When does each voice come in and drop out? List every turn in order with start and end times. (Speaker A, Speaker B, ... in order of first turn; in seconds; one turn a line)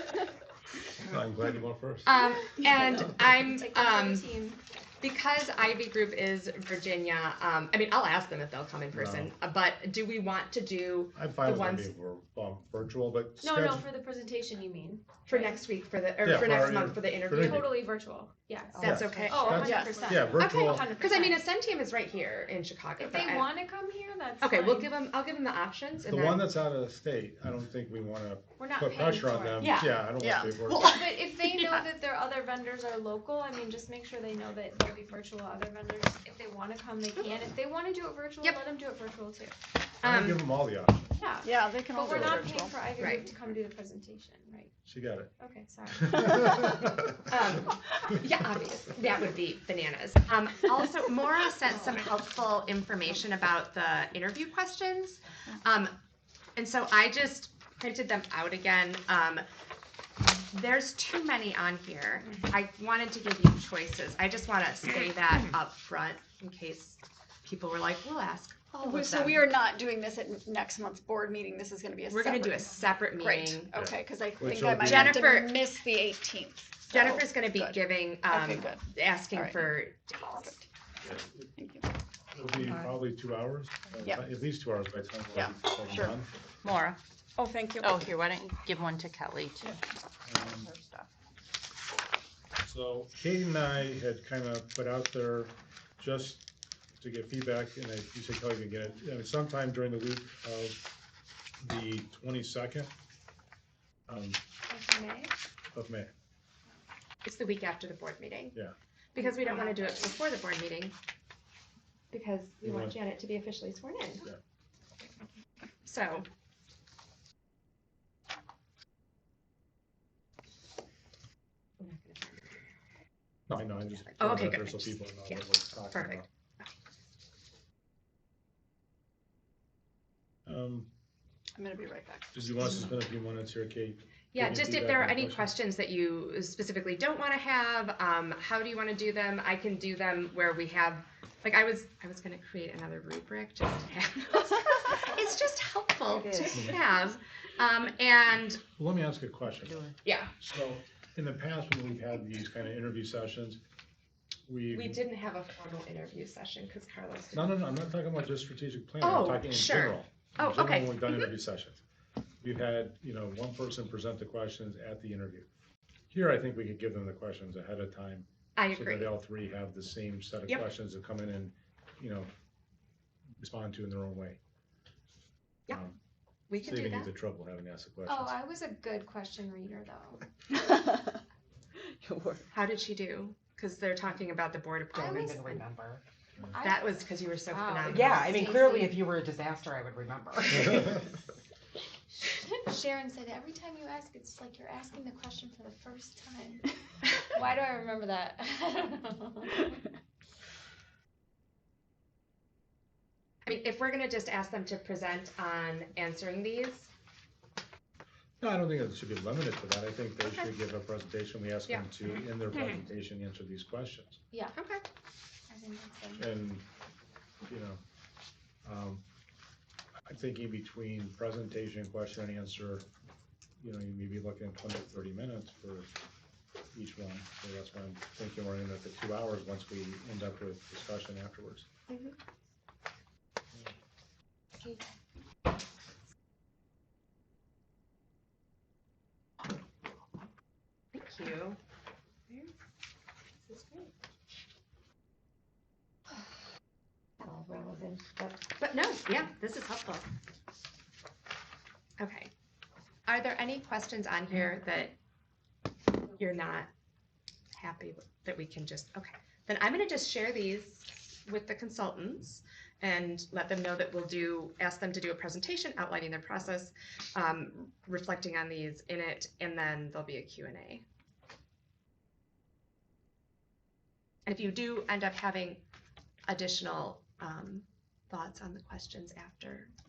Speaker A: 1.0-2.2
Speaker B: 2.0-4.3
Speaker C: 2.6-4.6
Speaker B: 5.0-11.9
Speaker A: 8.9-9.3
Speaker A: 11.2-13.9
Speaker C: 13.4-15.6
Speaker B: 15.3-17.7
Speaker A: 16.2-17.8
Speaker C: 17.3-21.4
Speaker B: 18.8-23.5
Speaker A: 18.8-20.9
Speaker D: 19.5-20.1
Speaker C: 23.0-24.9
Speaker B: 24.4-26.5
Speaker A: 26.0-31.0
Speaker C: 28.6-29.8
Speaker D: 29.6-31.8
Speaker C: 30.8-39.5
Speaker A: 40.0-41.2
Speaker B: 40.0-40.5
Speaker C: 41.2-44.7
Speaker D: 41.4-42.8
Speaker A: 42.1-42.4
Speaker B: 43.0-43.3
Speaker A: 44.9-45.3
Speaker C: 45.4-46.7
Speaker A: 45.9-47.2
Speaker B: 47.3-56.0
Speaker B: 56.6-59.4
Speaker B: 60.2-69.3
Speaker D: 68.8-79.6
Speaker B: 72.1-73.8
Speaker A: 73.7-75.2
Speaker B: 74.8-75.6
Speaker B: 76.9-80.6
Speaker A: 81.0-81.5
Speaker D: 81.6-81.9
Speaker A: 82.3-86.3
Speaker D: 85.3-86.1
Speaker E: 86.6-87.0
Speaker D: 87.7-88.0
Speaker E: 87.8-89.7
Speaker A: 90.3-90.7
Speaker E: 90.7-91.0
Speaker A: 92.6-96.4
Speaker A: 97.0-100.8
Speaker A: 101.6-102.9
Speaker A: 104.1-104.4
Speaker C: 104.7-105.3
Speaker A: 105.7-106.1
Speaker B: 107.2-108.6
Speaker B: 109.2-111.0
Speaker B: 112.1-114.3
Speaker A: 112.6-113.0
Speaker B: 115.8-116.3
Speaker B: 121.8-122.6
Speaker A: 123.5-126.3
Speaker B: 124.1-126.7
Speaker A: 130.5-130.9
Speaker D: 131.6-132.8
Speaker A: 132.3-135.5
Speaker B: 134.3-148.6
Speaker A: 148.8-149.8
Speaker B: 150.0-150.3
Speaker A: 150.4-153.6
Speaker A: 154.5-155.0
Speaker B: 154.7-157.5
Speaker A: 157.3-161.8
Speaker B: 159.0-161.3
Speaker A: 162.4-165.5
Speaker A: 166.1-172.3
Speaker B: 168.6-169.2
Speaker A: 173.4-174.4
Speaker A: 175.7-176.0
Speaker B: 176.5-177.1
Speaker A: 176.6-178.4
Speaker C: 178.1-180.2
Speaker E: 180.6-181.0
Speaker E: 182.0-182.4
Speaker B: 182.5-185.6
Speaker C: 184.9-185.5
Speaker F: 185.0-186.0
Speaker C: 186.4-189.0
Speaker B: 186.6-188.9
Speaker F: 187.9-191.1
Speaker C: 192.1-196.7
Speaker C: 197.2-199.8
Speaker B: 203.4-206.9
Speaker A: 208.4-214.2
Speaker B: 210.2-210.5
Speaker B: 211.7-212.8
Speaker B: 214.5-214.8
Speaker C: 215.5-216.2
Speaker A: 216.2-216.6
Speaker A: 217.5-217.8
Speaker A: 218.7-219.0
Speaker A: 220.1-222.8
Speaker A: 223.6-225.9
Speaker A: 226.7-231.7
Speaker B: 231.9-232.2
Speaker B: 240.9-241.6
Speaker B: 242.3-242.5
Speaker B: 243.5-243.9
Speaker B: 247.2-250.1
Speaker B: 252.0-252.3
Speaker B: 253.1-254.9
Speaker B: 256.1-256.7
Speaker B: 257.6-270.8
Speaker B: 274.3-275.6
Speaker B: 276.3-279.7